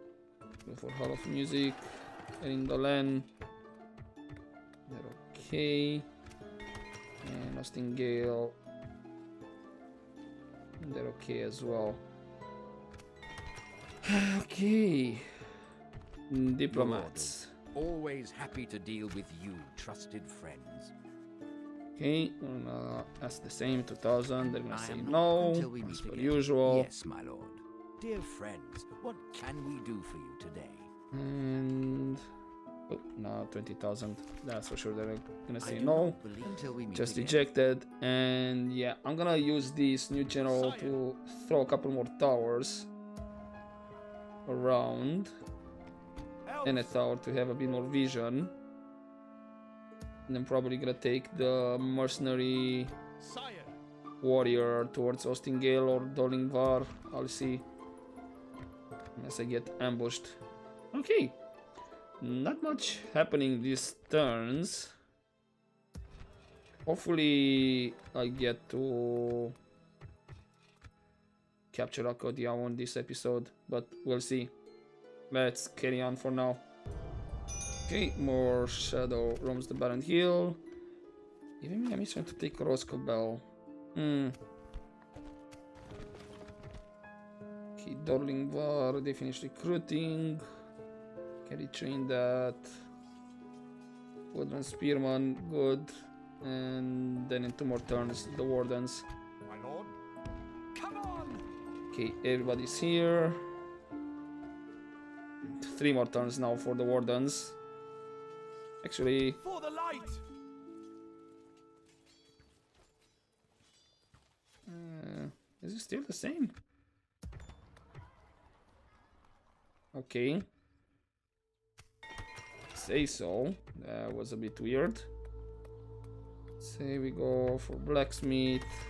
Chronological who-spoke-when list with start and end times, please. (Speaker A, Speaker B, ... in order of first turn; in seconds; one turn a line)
Speaker A: 0.7-1.9
Speaker A: 2.4-3.3
Speaker A: 4.9-6.0
Speaker A: 7.2-8.6
Speaker A: 10.8-12.0
Speaker A: 14.0-15.3
Speaker A: 16.3-17.5
Speaker B: 16.7-20.9
Speaker A: 21.9-26.9
Speaker B: 24.7-30.9
Speaker A: 31.1-32.2
Speaker A: 32.9-36.2
Speaker B: 35.6-37.5
Speaker A: 36.9-42.9
Speaker C: 40.4-41.0
Speaker A: 44.5-45.3
Speaker C: 46.5-46.9
Speaker A: 46.6-48.5
Speaker A: 50.3-52.9
Speaker C: 53.2-53.8
Speaker A: 54.2-57.6
Speaker A: 59.1-60.4
Speaker A: 60.9-61.4
Speaker A: 62.2-64.9
Speaker A: 66.8-69.5
Speaker A: 71.7-74.5
Speaker A: 75.3-76.6
Speaker A: 77.8-80.6
Speaker A: 81.6-84.4
Speaker A: 87.8-90.4
Speaker A: 91.4-92.8
Speaker A: 94.3-99.0
Speaker C: 99.4-99.9
Speaker C: 100.7-101.4
Speaker A: 101.9-103.4
Speaker A: 105.4-107.6
Speaker A: 108.8-109.4
Speaker C: 109.4-110.2
Speaker A: 114.7-116.5
Speaker A: 119.9-120.5
Speaker A: 122.7-125.1
Speaker A: 126.6-128.8